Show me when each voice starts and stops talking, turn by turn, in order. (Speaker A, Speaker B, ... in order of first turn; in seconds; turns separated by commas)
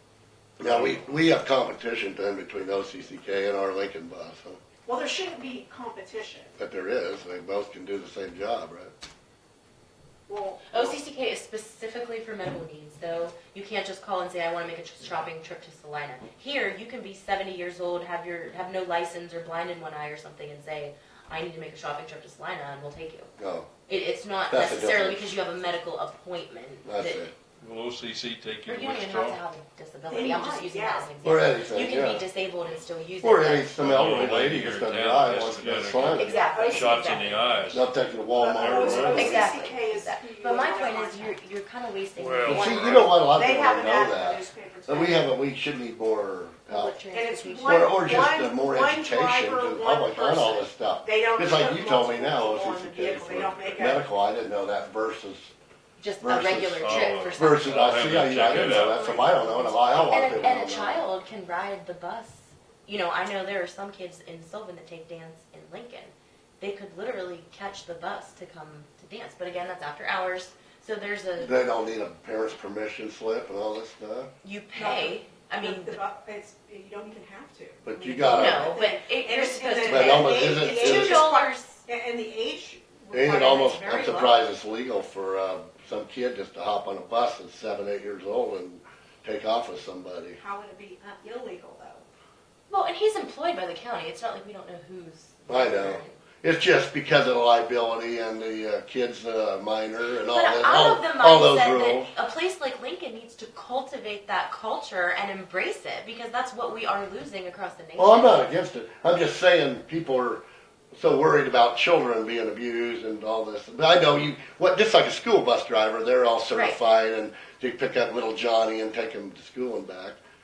Speaker A: 0.6-4.6, Speaker B: 0.6-1.0, Speaker C: 4.8-6.5, Speaker A: 6.6-8.9, Speaker C: 10.3-11.0, Speaker D: 10.7-23.3, Speaker A: 23.4-23.7, Speaker D: 23.9-27.3, Speaker A: 24.5-25.3, Speaker A: 26.9-27.3, Speaker B: 27.6-29.4, Speaker D: 28.7-33.7, Speaker C: 30.1-31.1, Speaker A: 31.2-32.2, Speaker A: 33.2-36.4, Speaker B: 33.8-37.9, Speaker D: 36.1-37.7, Speaker C: 36.2-37.4, Speaker A: 37.7-39.5, Speaker C: 38.4-41.4, Speaker B: 38.5-39.5, Speaker D: 39.1-43.0, Speaker B: 42.2-43.1, Speaker A: 42.5-47.0, Speaker C: 42.8-45.3, Speaker D: 46.7-47.9, Speaker C: 47.1-54.0, Speaker A: 47.6-55.5, Speaker D: 56.0-57.9, Speaker A: 56.2-61.0, Speaker B: 56.8-59.5, Speaker D: 58.7-71.6, Speaker A: 71.4-74.3, Speaker D: 74.4-76.0, Speaker C: 74.7-84.4, Speaker A: 77.8-78.7, Speaker D: 78.0-81.8, Speaker A: 79.8-81.2, Speaker A: 83.1-90.4, Speaker C: 90.4-92.1, Speaker D: 92.7-96.2, Speaker A: 95.5-102.1, Speaker D: 100.2-108.5, Speaker A: 108.0-110.4, Speaker A: 110.9-120.2, Speaker D: 116.5-116.8